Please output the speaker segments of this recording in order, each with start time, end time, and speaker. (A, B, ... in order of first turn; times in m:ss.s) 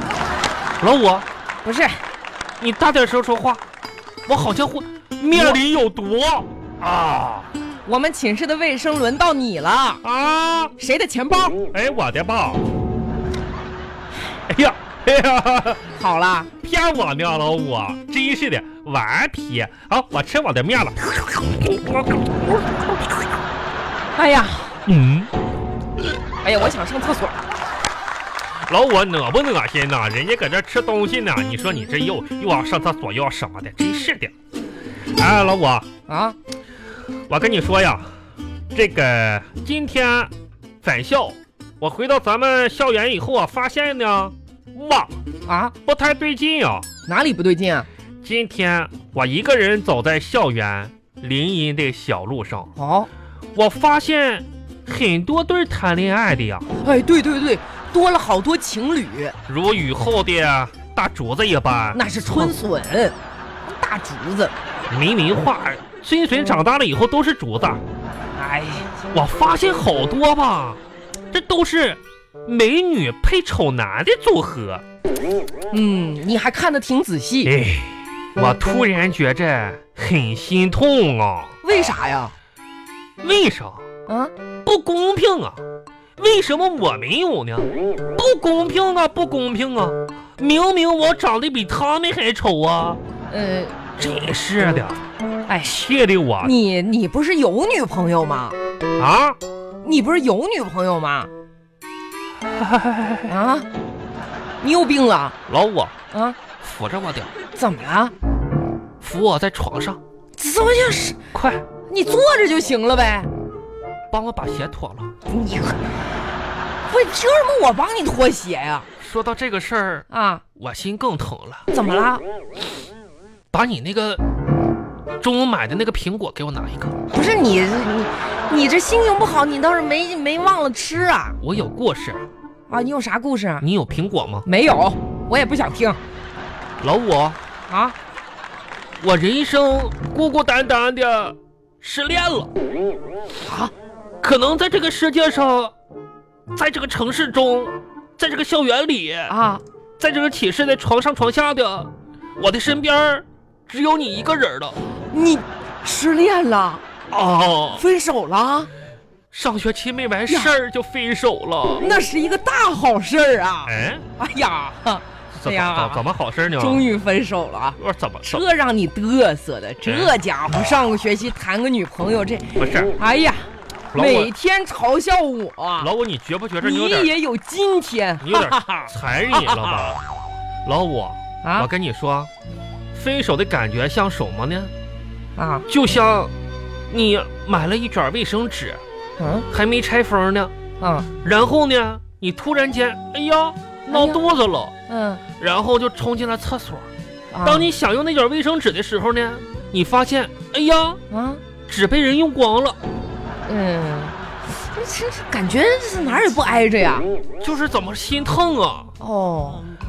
0:00.8-0:01.2 A
0:01.6-0:02.0 B
0:02.6-0:03.6 A
0:04.3-0:07.5 A
0:05.3-0:05.6 B
0:07.8-0:10.0 B
0:10.0-0:10.7 A
0:10.8-0:11.6 B
0:11.7-0:12.6 A
0:14.5-0:15.9 A
0:16.0-0:16.5 B
0:16.6-0:23.2 A
0:24.2-0:24.8 B
0:24.8-0:25.3 A
0:26.4-0:27.4 B
0:28.7-0:34.3 A
0:35.1-0:35.8 A
0:36.1-0:36.3 B
0:37.3-0:38.1 A
0:38.7-0:40.3 A
0:40.8-0:45.2 A
0:45.5-0:45.7 B
0:45.8-0:46.9 A
0:47.1-0:47.9 B
0:48.2-0:52.7 A
0:52.8-0:53.1 B
0:53.5-0:56.7 A
0:56.8-0:59.3 B
0:59.5-1:02.5 A
1:01.9-1:03.1 B
1:03.6-1:04.5 B
1:04.9-1:07.8 A
1:08.4-1:09.0 B
1:09.1-1:10.8 A
1:11.3-1:14.8 A
1:15.7-1:17.5 B
1:17.4-1:21.5 A
1:21.6-1:22.3 B
1:23.2-1:23.8 A
1:24.1-1:24.3 B
1:24.6-1:25.6 A
1:26.2-1:33.0 A
1:33.3-1:33.8 B
1:34.0-1:35.0 A
1:35.5-1:35.7 B
1:35.6-1:36.5 A
1:36.4-1:38.6 B
1:39.0-1:39.4 A
1:39.8-1:41.3 B
1:42.6-1:43.3 A
1:43.3-1:43.7 B
1:44.6-1:45.4 B
1:45.5-1:45.9 A
1:46.1-1:46.4 B
1:46.6-1:47.3 A
1:47.6-1:48.1 B
1:49.0-1:50.0 A
1:50.4-1:51.2 B
1:51.3-1:51.6 A
1:51.9-1:53.3 B
1:54.1-1:55.1 A
1:55.3-1:55.8 B
1:56.9-1:58.9 B
1:59.0-2:00.0 A
2:00.1-2:00.4 B
2:00.6-2:01.6 A
2:01.7-2:02.2 B
2:03.5-2:04.2 A
2:05.2-2:07.0 A
2:07.1-2:11.4 B
2:11.4-2:12.2 A
2:12.7-2:13.6 B
2:13.6-2:14.5 A
2:14.4-2:16.0 B
2:16.8-2:17.4 A
2:17.7-2:18.0 B
2:19.0-2:22.5 A
2:23.4-2:23.7 B
2:24.2-2:25.7 A
2:26.5-2:29.3 A
2:29.3-2:29.6 B
2:30.0-2:34.8 A
2:35.1-2:36.8 B
2:37.1-2:37.8 A
2:37.8-2:38.7 B
2:39.3-2:41.9 A
2:41.8-2:46.0 B
2:43.6-2:44.0 A
2:45.3-2:46.9 A
2:46.5-2:55.9 B
2:47.8-2:48.4 A
2:49.8-2:50.1 A
2:52.6-2:52.9 A
2:53.9-2:54.3 A
2:55.8-2:57.1 A
2:56.6-2:59.8 B
2:58.2-3:00.0 A
3:00.6-3:02.3 A
3:01.4-3:01.7 B
3:02.9-3:04.7 A
3:05.4-3:05.6 B
3:05.7-3:06.3 A
3:06.9-3:08.8 A
3:09.2-3:09.5 B
3:09.5-3:10.5 A
3:10.8-3:11.1 B
3:11.2-3:14.7 A
3:13.9-3:14.2 B
3:14.9-3:15.2 B
3:15.4-3:16.9 A
3:17.3-3:17.7 B
3:17.4-3:21.0 A
3:21.1-3:21.4 B
3:21.7-3:22.8 A
3:23.4-3:27.1 B
3:27.4-3:28.9 A
3:29.0-3:29.6 B